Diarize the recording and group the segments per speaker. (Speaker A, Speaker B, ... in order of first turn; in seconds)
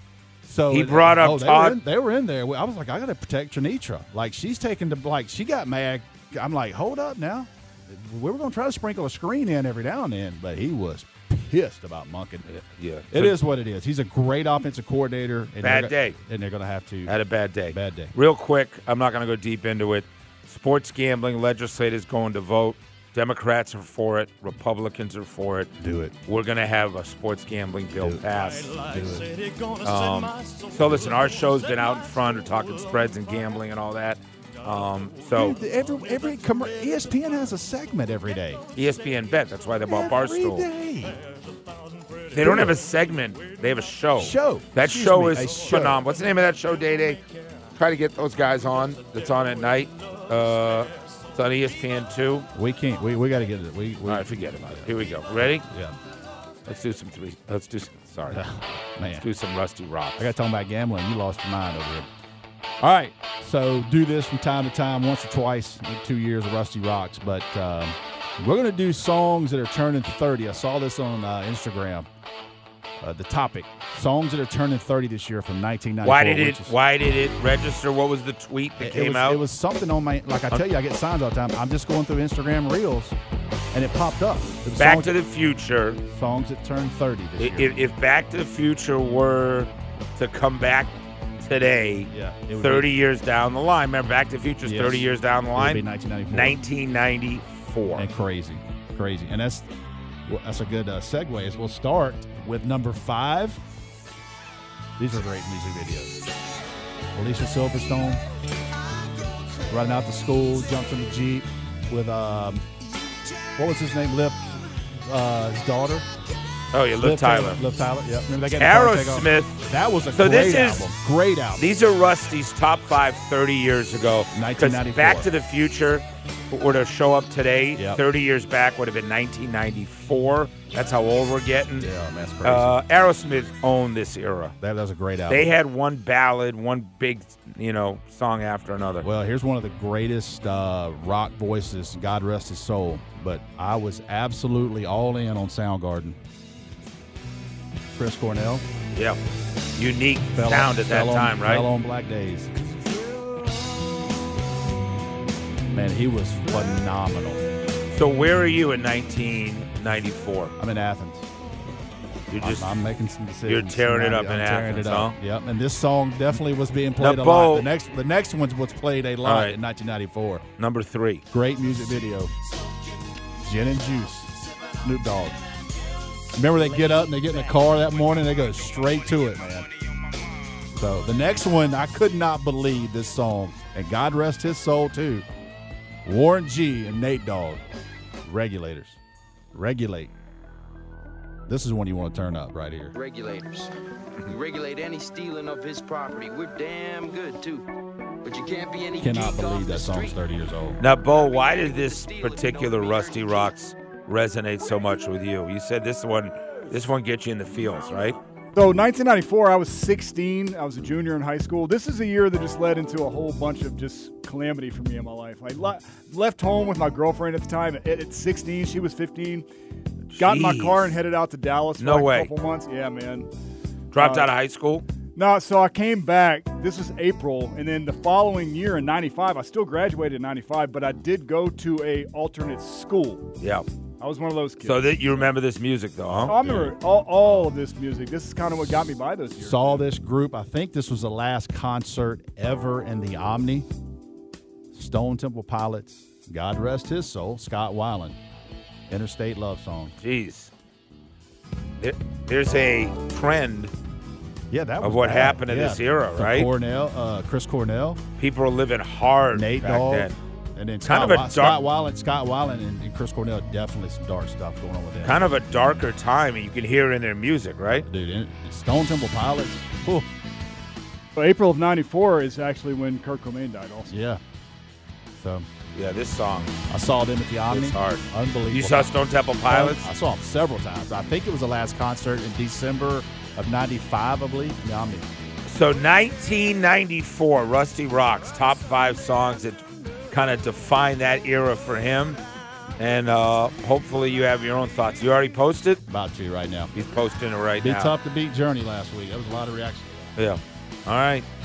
Speaker A: 0.4-12.5, 13.1-17.1, 17.7-18.1, 25.8-26.1, 28.8-29.3, 35.3-38.6, 39.8-41.2, 42.4-42.8, 44.2-46.1, 52.5-56.0, 58.3-59.3, 60.2-62.1, 62.8-72.1, 73.0-76.7, 78.8-83.2, 83.7-85.2, 86.1-87.8, 92.1-92.9, 94.6-96.6, 97.9-99.7, 100.2-103.6, 105.0-106.2, 107.1-108.2, 109.7-112.7, 113.6-116.1, 116.9-121.7, 124.3-125.3, 127.8-128.0, 131.8-132.8, 134.6-135.5, 139.0-146.2, 147.9-148.6, 150.3-152.5, 155.7-157.4, 160.6-161.3, 162.4-170.4, 171.3-172.3, 173.4-175.4, 176.3-179.7, 180.7-185.3, 186.0-187.6, 188.2-189.0, 189.5-190.1, 191.5-192.9, 199.0-200.8, 236.1-236.7, 239.4-243.7, 244.7-248.2, 248.9-249.9, 254.5-258.0, 259.3-265.3, 267.7-270.1, 273.9-274.2, 275.2-275.5, 276.7-285.1, 295.9-296.7, 297.6-300.1
Speaker B: 0.7-1.8, 12.4-13.3, 15.6-16.2, 17.1-25.7, 26.2-28.7, 29.8-35.6, 38.7-40.7, 42.3-47.2, 47.7-52.5, 54.0-55.6, 56.6-58.4, 59.1-60.3, 76.0-79.4, 84.8-86.0, 87.4-98.1, 116.7-117.6, 118.5-119.6, 120.1-120.9, 121.6-131.9, 132.4-134.5, 135.3-139.1, 148.9-149.2, 149.8-151.7, 157.9-160.5, 162.3-162.7, 163.4-165.2, 167.0-167.7, 169.2-169.6, 170.6-171.2, 200.8-208.2, 220.1-220.9, 221.8-222.3, 223.9-224.8, 233.4-233.7, 234.6-236.7, 250.0-250.5, 251.8-253.7, 254.8-256.5, 258.2-260.1, 260.8-261.6, 265.0-267.9, 275.7-276.6, 277.5-279.9, 285.4-292.2, 292.8-295.8, 296.7-297.9, 300.1-301.3
Speaker C: 192.9-193.7, 194.3-197.6, 198.2-200.2, 201.3-203.5
Speaker D: 208.6-219.4, 220.2-223.3, 224.0-224.3, 225.2-233.3, 234.0-234.9, 236.3-239.9, 271.1-273.9